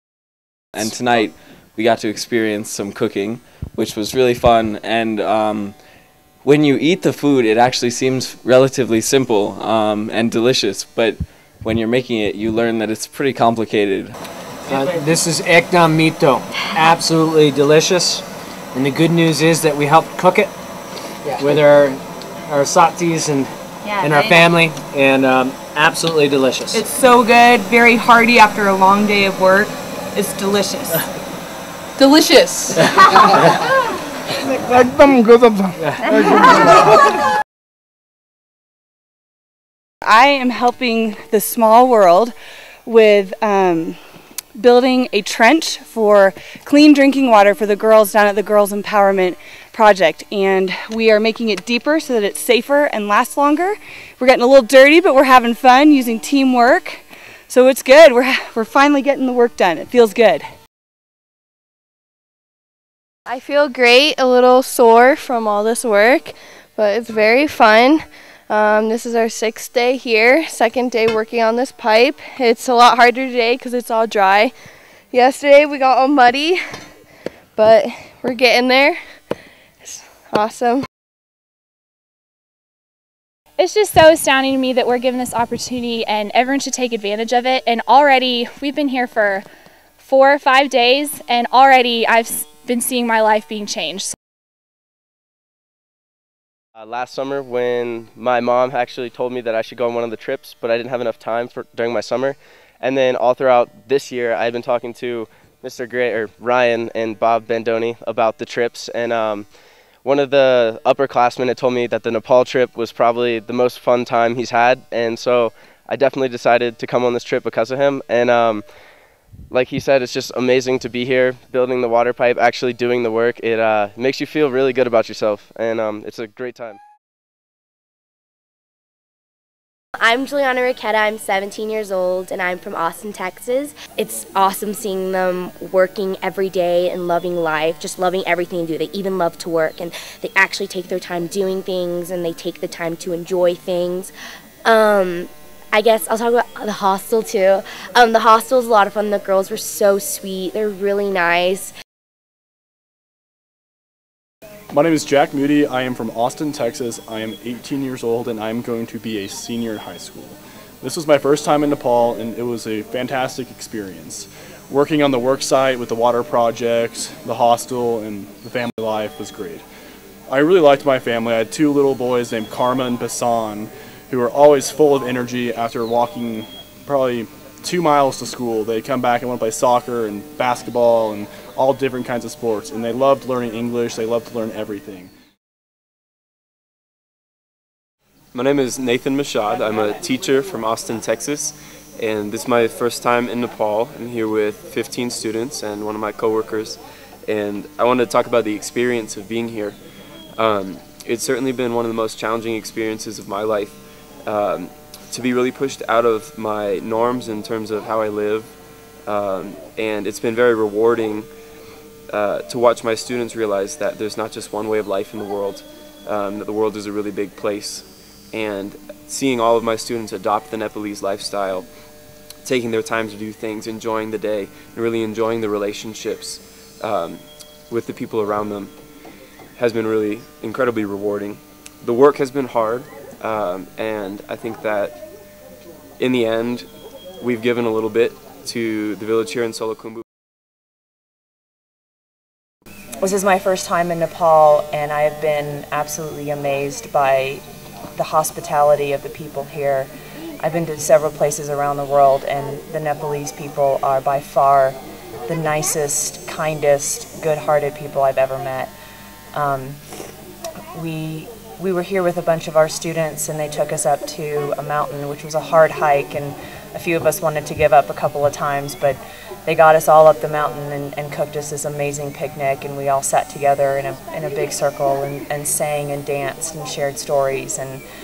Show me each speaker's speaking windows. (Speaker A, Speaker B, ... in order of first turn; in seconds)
Speaker A: 0.8-5.8, 6.4-14.2
Speaker B: 14.7-18.2, 18.8-20.5, 21.4-22.0, 22.5-23.5, 24.0-26.8
Speaker C: 14.7-15.2, 24.0-24.4, 26.7-30.9, 32.0-32.8
Speaker D: 40.0-42.3, 42.9-44.0, 44.6-60.5
Speaker E: 63.3-74.5, 75.1-76.6, 77.6-79.1, 79.9-80.9
Speaker F: 83.6-89.5, 90.0-94.2
Speaker G: 96.8-109.5, 110.0-118.7, 119.5-126.8
Speaker H: 130.0-144.1, 144.7-151.7
Speaker I: 154.7-169.6, 170.3-185.1
Speaker J: 188.3-199.8, 200.4-208.6, 209.1-211.3, 212.1-221.7, 222.4-228.7, 229.6-235.0, 236.0-236.7, 237.2-240.0
Speaker K: 243.0-247.4, 247.9-249.9, 250.4-258.7, 259.3-259.8, 260.7-277.8